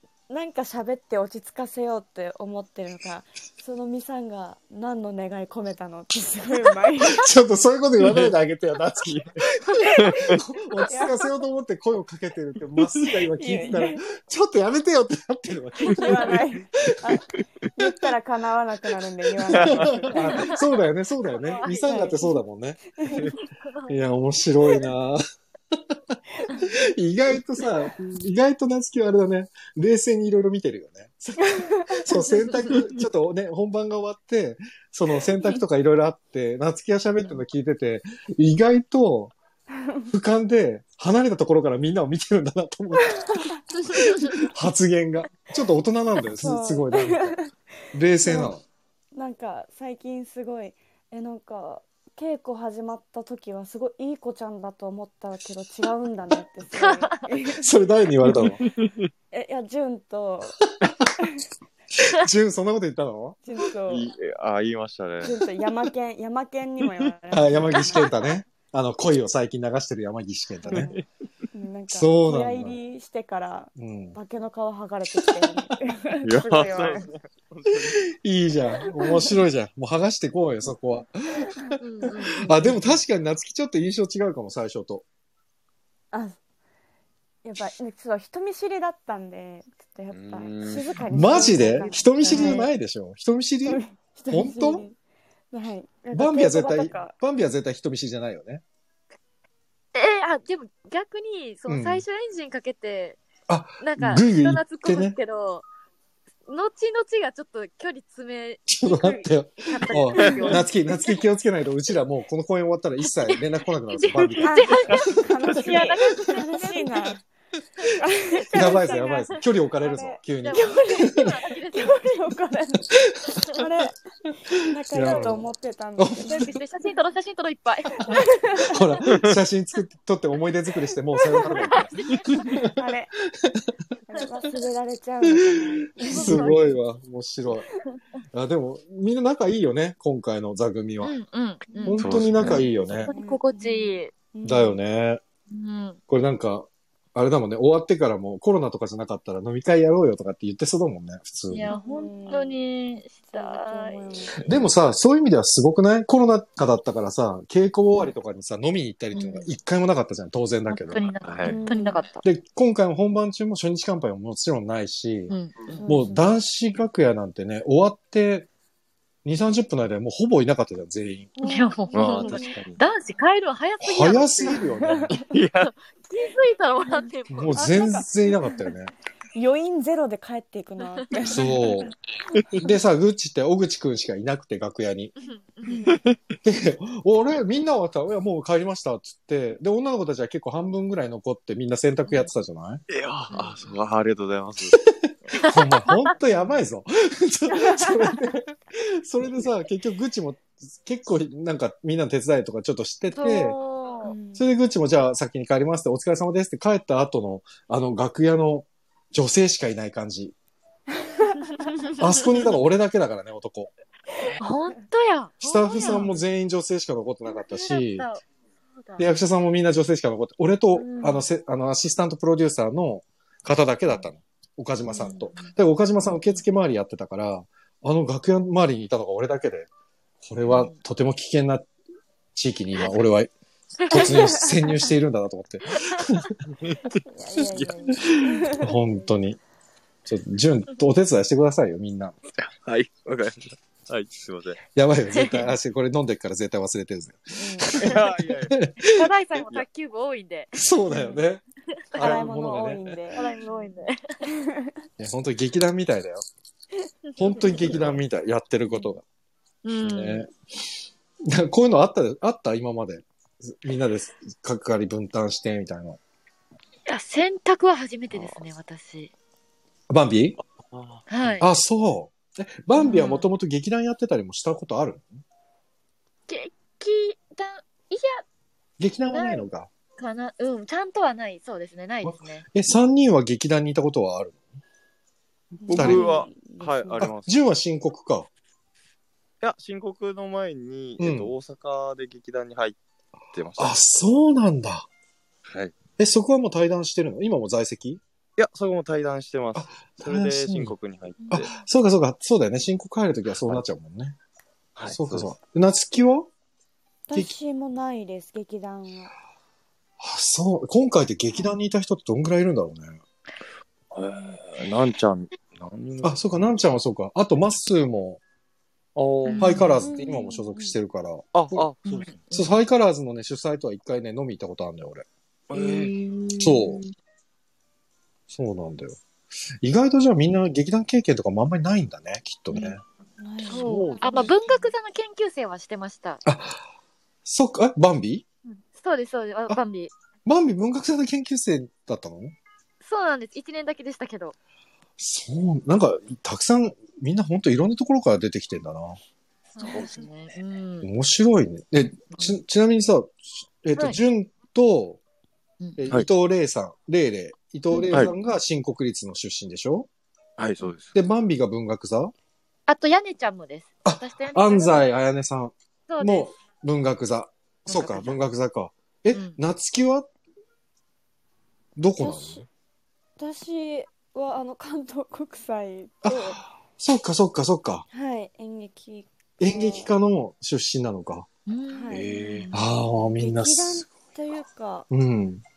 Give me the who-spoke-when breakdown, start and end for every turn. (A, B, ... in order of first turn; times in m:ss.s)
0:00.3-0:07.3 A
0:07.1-0:16.4 B
0:08.0-0:08.3 C
0:10.0-0:10.4 C
0:10.9-0:11.4 A
0:13.3-0:14.0 A
0:15.8-0:20.6 A
0:15.9-0:16.4 C
0:19.4-0:20.0 C
0:19.5-0:22.8 B
0:20.1-0:20.6 D
0:21.3-0:22.0 D
0:21.6-0:22.4 A
0:23.0-0:23.3 A
0:23.2-0:24.0 D
0:23.9-0:25.2 B
0:25.7-0:39.3 B
0:31.4-0:32.7 A
0:39.8-0:40.1 A
0:40.1-0:47.4 B
0:43.0-0:43.6 A
0:46.3-0:47.5 A
0:47.9-0:48.6 B
0:48.2-0:48.6 A
0:49.1-0:57.7 A
0:56.7-0:57.1 D
0:57.6-0:58.6 B
0:58.2-0:59.1 C
0:59.3-1:01.4 A
1:02.1-1:03.4 B
1:03.4-1:04.1 A
1:03.9-1:05.4 C
1:05.2-1:08.3 A
1:07.3-1:10.9 B
1:10.6-1:11.0 A
1:10.7-1:11.0 C
1:11.5-1:17.1 A
1:11.9-1:12.8 B
1:13.8-1:14.2 B
1:16.2-1:18.1 C
1:18.1-1:25.0 B
1:21.8-1:23.0 D
1:26.1-1:26.4 A
1:27.4-1:32.7 A
1:30.1-1:31.0 C
1:31.1-1:34.8 B
1:32.2-1:32.7 D
1:33.6-1:35.0 A
1:35.5-1:37.1 A
1:36.1-1:38.6 B
1:39.9-1:43.2 D
1:41.7-1:42.0 B
1:43.5-1:45.2 B
1:43.8-1:45.7 D
1:46.5-1:50.7 D
1:48.7-1:55.0 B
1:53.2-1:57.1 D
1:54.4-1:57.2 A
1:57.8-1:59.4 D
1:57.9-2:04.0 A
1:58.5-2:01.3 B
2:00.4-2:02.3 D
2:03.0-2:03.4 B
2:03.3-2:03.6 D
2:04.5-2:06.5 B
2:04.5-2:06.5 A
2:06.3-2:08.3 D
2:08.1-2:08.8 A
2:08.6-2:12.7 B
2:09.1-2:09.3 C
2:11.2-2:11.6 A
2:11.5-2:12.4 D
2:12.5-2:13.1 A
2:14.1-2:16.6 A
2:15.2-2:17.7 B
2:16.0-2:16.6 D
2:18.3-2:21.1 B
2:21.0-2:24.1 D
2:21.7-2:22.1 A
2:21.8-2:23.1 B
2:22.0-2:22.6 C
2:22.6-2:24.8 A
2:24.4-2:25.2 B
2:25.5-2:26.0 D
2:26.1-2:31.7 B
2:31.5-2:34.1 D
2:31.7-2:32.6 A
2:33.3-2:34.4 A
2:34.4-2:41.1 B
2:39.1-2:39.5 D
2:40.7-2:42.2 D
2:41.2-2:41.6 C
2:41.4-2:42.0 A
2:42.2-2:45.3 B
2:45.3-2:45.8 D
2:45.8-2:46.3 A
2:45.8-2:48.5 B
2:49.2-2:51.3 B
2:51.4-2:52.6 A
2:51.4-2:54.6 D
2:51.9-2:52.8 C
2:53.8-2:55.2 B
2:54.5-2:55.2 A
2:55.1-2:55.7 C
2:55.9-2:58.0 D
2:57.3-2:58.9 B
2:57.5-2:58.6 A
2:59.3-3:01.9 A
3:01.2-3:01.9 B
3:02.5-3:05.1 B
3:05.2-3:05.9 D
3:05.6-3:05.9 A
3:05.9-3:06.2 C
3:06.4-3:12.8 B
3:12.9-3:14.8 C
3:13.3-3:13.7 D
3:14.9-3:23.6 B
3:15.4-3:16.0 D
3:17.6-3:17.9 A
3:23.1-3:24.1 D
3:24.0-3:24.4 A
3:24.4-3:30.3 B
3:31.2-3:31.7 A
3:31.6-3:32.3 D
3:32.0-3:33.7 B
3:34.4-3:36.1 D
3:35.4-3:38.1 B
3:37.3-3:38.2 D
3:38.8-3:39.1 D
3:39.0-3:49.7 B
3:40.7-3:41.2 D
3:44.9-3:45.5 D
3:50.2-3:51.7 B
3:50.5-3:50.8 D
3:52.3-3:53.3 B
3:53.9-3:56.3 B
3:53.9-3:54.8 A
3:56.6-3:58.5 C
3:57.0-3:59.1 A
3:58.5-3:59.4 B
4:00.0-4:02.2 B
4:02.4-4:04.6 C
4:04.7-4:09.0 B
4:05.1-4:05.5 D
4:07.4-4:07.8 A
4:07.7-4:08.6 C
4:08.8-4:11.2 D
4:10.5-4:13.0 B
4:10.9-4:11.2 A
4:12.0-4:13.3 A
4:13.1-4:14.2 D
4:14.3-4:14.7 A
4:15.0-4:16.2 B
4:17.2-4:19.0 B
4:17.3-4:18.0 C
4:19.6-4:20.2 D
4:19.8-4:20.3 B
4:21.2-4:26.0 B
4:26.9-4:29.1 D
4:28.1-4:28.4 C
4:29.9-4:30.4 B
4:30.6-4:31.0 C
4:31.1-4:31.5 D
4:31.4-4:35.2 B
4:32.8-4:33.3 D
4:36.3-4:38.2 D
4:38.8-4:39.7 B
4:39.1-4:39.4 D
4:40.0-4:42.4 D
4:42.0-4:44.4 B
4:45.6-4:47.1 A
4:45.7-4:46.2 D
4:45.7-4:47.4 C
4:45.7-4:46.1 B
4:47.0-4:48.3 B
4:49.4-4:52.8 C
4:51.0-4:51.3 B
4:53.3-4:53.8 C
4:53.6-4:54.9 B
4:55.5-4:55.8 C
4:56.0-4:58.0 B
4:58.4-5:01.5 C
4:59.5-5:00.7 B
5:01.3-5:04.2 B
5:04.8-5:05.3 C
5:04.8-5:06.3 B
5:07.1-5:09.1 A
5:10.0-5:13.0 B
5:13.9-5:16.4 C
5:16.0-5:18.2 B
5:19.0-5:19.8 C
5:19.2-5:19.8 D
5:19.4-5:21.6 B
5:19.8-5:20.8 A
5:21.3-5:22.1 C
5:21.8-5:22.5 D
5:22.3-5:25.1 B
5:25.5-5:25.9 C
5:25.5-5:26.9 D
5:26.4-5:26.8 B
5:28.3-5:29.0 B
5:29.6-5:32.8 B
5:32.5-5:32.8 D
5:33.2-5:34.3 A
5:33.4-5:34.3 C
5:33.4-5:36.2 D
5:36.2-5:36.6 B
5:37.2-5:38.2 B
5:38.5-5:39.9 D
5:40.2-5:42.3 B
5:42.8-5:44.4 D
5:45.0-5:49.0 B
5:49.6-5:50.9 D
5:50.8-5:55.0 B
5:55.8-5:59.9 B
6:00.4-6:00.9 C
6:00.9-6:02.1 B
6:02.7-6:04.9 D
6:03.8-6:10.1 B
6:05.9-6:06.3 D
6:07.7-6:08.2 D
6:09.1-6:09.4 D
6:11.8-6:12.4 B
6:12.0-6:12.5 A
6:13.2-6:16.4 A
6:16.0-6:17.8 B
6:17.9-6:19.9 A
6:19.4-6:21.3 B
6:21.5-6:22.6 D
6:21.7-6:22.2 A
6:21.9-6:22.5 C
6:22.5-6:23.8 B
6:23.1-6:24.9 A
6:24.9-6:25.4 B